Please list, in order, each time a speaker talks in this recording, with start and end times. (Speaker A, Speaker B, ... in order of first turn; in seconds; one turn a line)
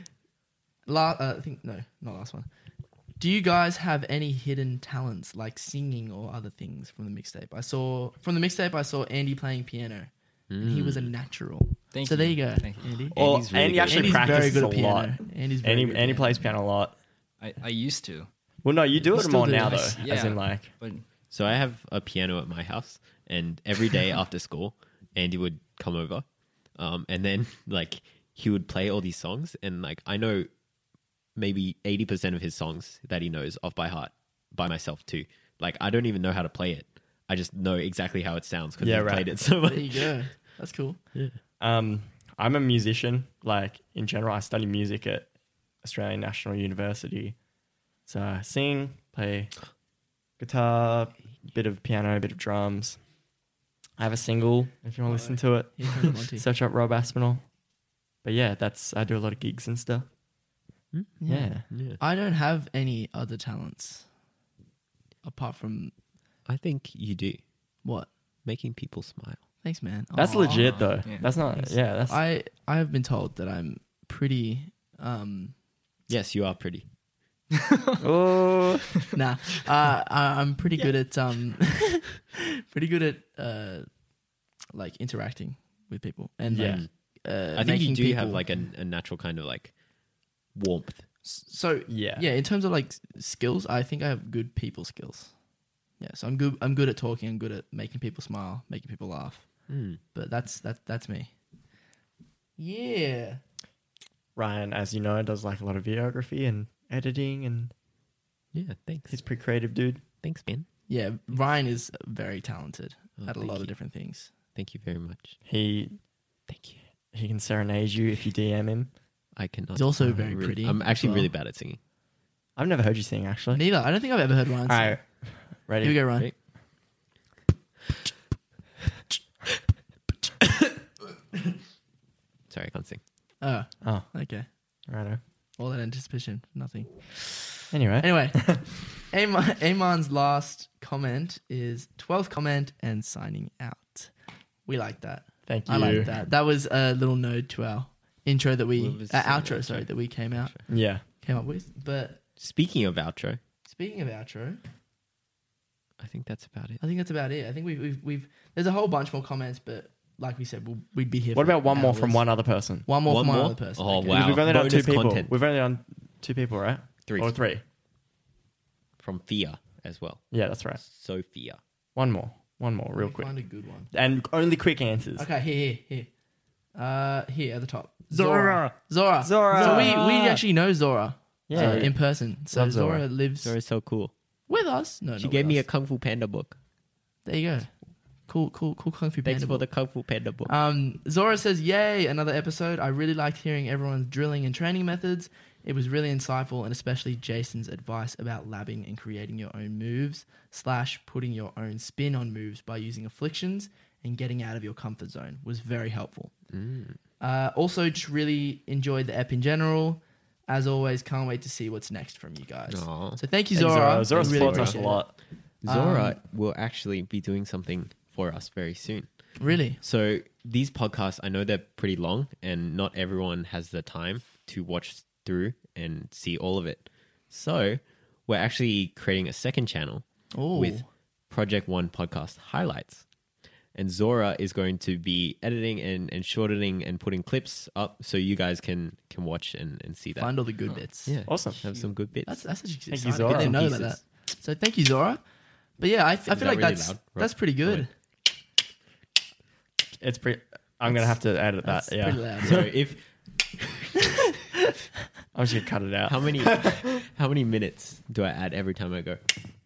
Speaker A: 0.9-2.5
Speaker A: 3.2-16.5
Speaker B: 10.5-11.1
Speaker C: 11.9-12.9
Speaker B: 13.1-14.7
Speaker D: 13.1-16.9
Speaker C: 17.4-18.3
Speaker D: 18.6-20.7
Speaker A: 19.0-20.0
Speaker C: 20.0-21.0
Speaker B: 21.3-30.5
Speaker B: 31.4-40.4
Speaker D: 38.8-39.4
Speaker A: 39.6-41.0
Speaker B: 41.1-41.4
Speaker D: 41.6-47.4
Speaker D: 48.1-49.7
Speaker D: 50.4-53.1
Speaker D: 54.0-57.5
Speaker A: 55.1-56.5
Speaker D: 58.2-60.1
Speaker B: 60.9-62.0
Speaker A: 61.2-64.1
Speaker D: 61.3-61.7
Speaker A: 65.2-65.9
Speaker B: 66.5-67.4
Speaker A: 67.8-68.1
Speaker B: 68.4-69.4
Speaker A: 69.6-75.5
Speaker D: 70.2-72.2
Speaker C: 70.6-71.3
Speaker B: 76.1-76.8
Speaker D: 78.0-79.0
Speaker A: 79.1-83.9
Speaker A: 84.7-88.5
Speaker D: 86.5-86.8
Speaker B: 86.6-86.9
Speaker B: 87.5-89.7
Speaker B: 90.5-91.1
Speaker A: 91.2-95.3
Speaker D: 91.9-92.3
Speaker A: 96.0-101.3
Speaker B: 99.7-100.0
Speaker A: 102.6-103.4
Speaker D: 104.4-107.7
Speaker B: 108.5-109.2
Speaker D: 109.1-110.0
Speaker B: 110.2-110.7
Speaker A: 110.9-114.3
Speaker B: 113.2-113.8
Speaker B: 114.5-115.4
Speaker D: 115.4-116.0
Speaker B: 116.5-116.8
Speaker D: 117.1-118.9
Speaker B: 119.4-121.8
Speaker A: 119.7-121.3
Speaker D: 122.6-123.7
Speaker A: 123.5-126.3
Speaker D: 124.7-126.2
Speaker B: 132.5-133.0
Speaker A: 133.4-134.4
Speaker D: 133.8-134.1
Speaker D: 134.9-135.2
Speaker A: 135.6-144.1
Speaker D: 137.7-138.6
Speaker A: 144.7-152.2
Speaker D: 145.4-146.2
Speaker B: 148.8-150.7
Speaker D: 150.7-151.0
Speaker B: 152.4-153.4
Speaker A: 153.7-154.6
Speaker B: 156.0-156.8
Speaker A: 156.8-162.3
Speaker D: 161.3-162.9
Speaker A: 162.9-164.4
Speaker B: 163.1-165.3
Speaker D: 164.1-167.6
Speaker B: 167.1-167.4
Speaker B: 169.0-170.2
Speaker D: 170.3-170.8
Speaker B: 170.8-171.6
Speaker D: 171.9-173.3
Speaker A: 172.9-173.9
Speaker D: 173.9-175.3
Speaker A: 175.2-176.1
Speaker A: 176.7-183.6
Speaker D: 178.1-180.4
Speaker D: 181.5-183.0
Speaker B: 181.6-181.9
Speaker B: 183.4-184.1
Speaker A: 184.5-185.6
Speaker B: 185.2-186.6
Speaker A: 187.2-187.7
Speaker A: 188.3-189.7
Speaker B: 189.2-190.5
Speaker A: 190.4-206.4
Speaker B: 206.5-207.0
Speaker A: 207.2-216.2
Speaker B: 212.7-213.2
Speaker D: 213.5-215.1
Speaker B: 214.1-214.8
Speaker B: 215.6-233.1
Speaker A: 219.4-219.8
Speaker A: 230.3-230.9
Speaker B: 233.7-240.4
Speaker A: 240.2-241.2
Speaker B: 241.1-242.4
Speaker D: 241.3-241.7
Speaker A: 242.3-245.2
Speaker D: 242.9-243.9
Speaker B: 243.2-244.0
Speaker A: 245.8-247.9
Speaker B: 246.3-247.9
Speaker D: 250.0-252.7
Speaker A: 251.6-252.8
Speaker B: 252.4-253.1
Speaker D: 255.3-256.8
Speaker B: 256.1-259.2